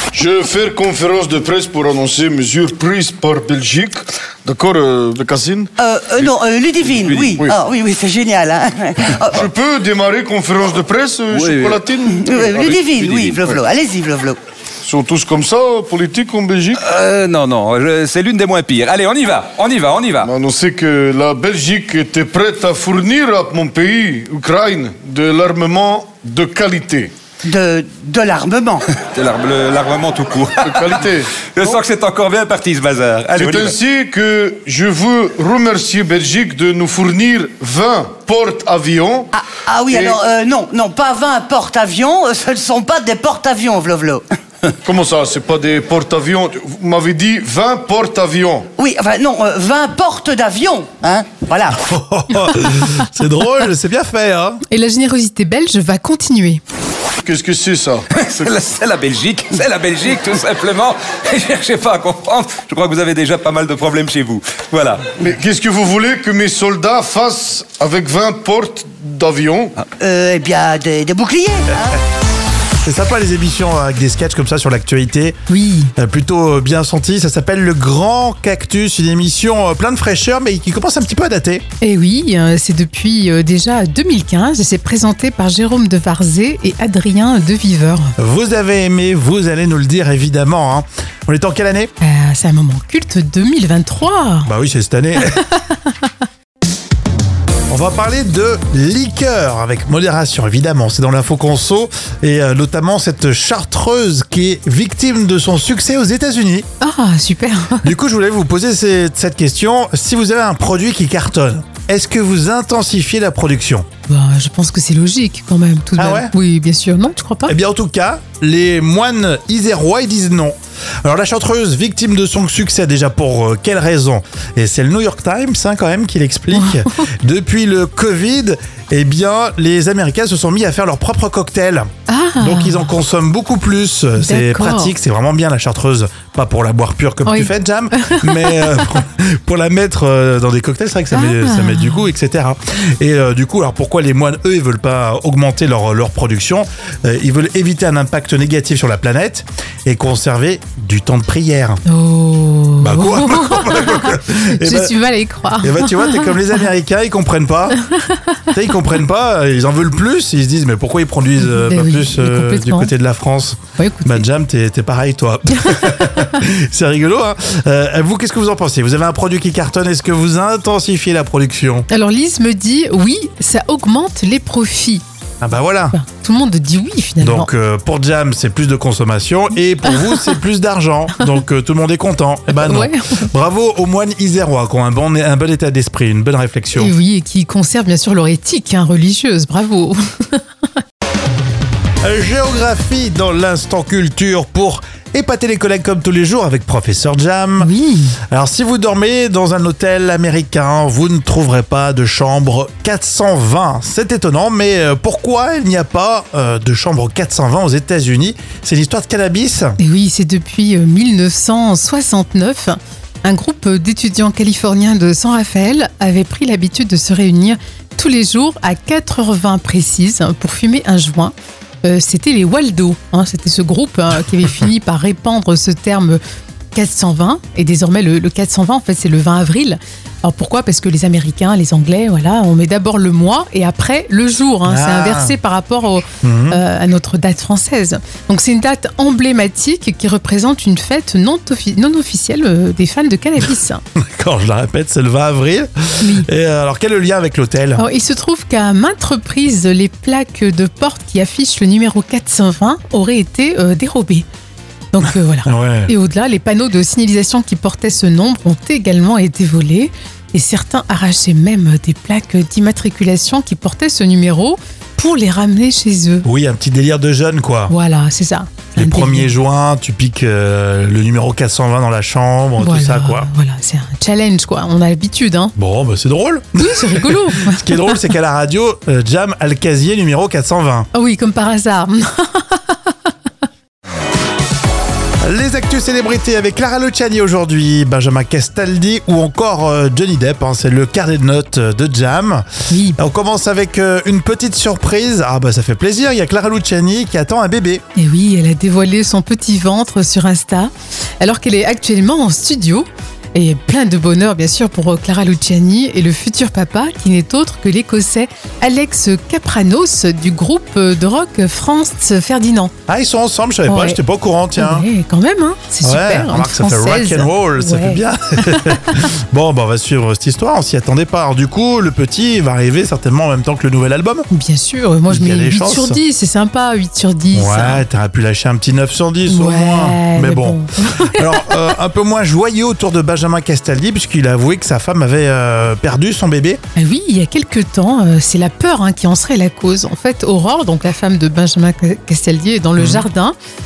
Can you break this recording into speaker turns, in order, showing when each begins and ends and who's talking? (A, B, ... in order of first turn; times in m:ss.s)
0:00.1-0:05.7 A
0:05.8-0:09.5 B
0:06.9-0:07.3 C
0:09.3-0:13.6 A
0:11.3-0:11.8 C
0:12.1-0:14.4 B
0:13.0-0:13.4 C
0:14.8-0:16.8 A
0:16.8-0:20.3 C
0:20.2-0:27.1 A
0:27.4-0:28.8 B
0:28.9-0:33.8 C
0:30.6-0:31.8 A
0:33.4-0:39.3 A
0:39.3-0:44.3 B
0:39.9-0:40.2 A
0:44.8-0:48.7 A
0:48.8-0:51.8 B
0:51.8-0:54.6 D
0:54.7-0:56.6 E
0:57.2-0:58.1 A
0:58.1-1:05.0 C
1:05.2-1:09.8 A
1:10.0-1:12.0 B
1:12.8-1:15.4 D
1:15.5-1:15.9 E
1:16.0-1:21.6 D
1:21.8-1:28.1 E
1:28.2-1:31.9 D
1:32.0-1:34.5 E
1:34.4-1:35.4 D
1:35.3-1:36.1 E
1:37.7-1:46.7 D
1:46.8-1:48.0 E
1:47.8-1:53.9 D
1:54.0-1:57.6 E
1:56.0-1:56.3 D
1:57.5-2:11.9 D
2:06.5-2:07.1 E
2:12.1-2:12.9 E
2:12.4-2:31.8 D
2:14.2-2:14.9 E
2:17.2-2:18.8 E
2:21.1-2:22.1 E
2:31.9-2:36.4 E
2:32.8-2:34.9 D
2:35.6-2:37.8 D
2:37.8-2:38.5 E
2:38.5-2:51.9 D
2:41.4-2:42.9 E
2:43.8-2:44.2 E
2:51.9-2:55.0 E
2:55.4-2:56.0 D
2:55.9-2:57.5 E
2:57.2-3:06.9 D
3:02.6-3:03.3 E
3:06.8-3:10.4 E
3:12.0-3:17.7 D
3:17.6-3:18.2 E
3:18.2-3:29.8 D
3:29.8-3:46.2 E
3:46.7-4:03.8 E
3:54.6-3:55.4 D
3:56.2-3:56.6 D
4:04.0-4:07.8 D
4:06.0-4:06.3 E
4:07.8-4:14.3 E
4:14.9-4:26.3 E
4:15.5-4:15.9 D
4:26.2-4:27.7 D
4:27.7-4:29.3 E
4:28.8-4:33.3 D
4:32.6-4:35.6 E
4:35.6-4:40.9 D
4:36.6-4:38.1 E
4:40.9-4:42.8 E
4:45.2-4:57.8 D
4:52.7-4:53.0 E
4:58.0-5:12.7 E
5:12.9-5:14.9 D
5:13.7-5:14.0 E
5:14.6-5:18.9 E
5:15.8-5:24.3 D
5:24.3-5:27.8 E
5:25.1-5:26.0 D
5:27.3-5:36.6 D
5:29.3-5:31.7 E
5:36.8-5:43.4 E
5:42.8-5:43.1 D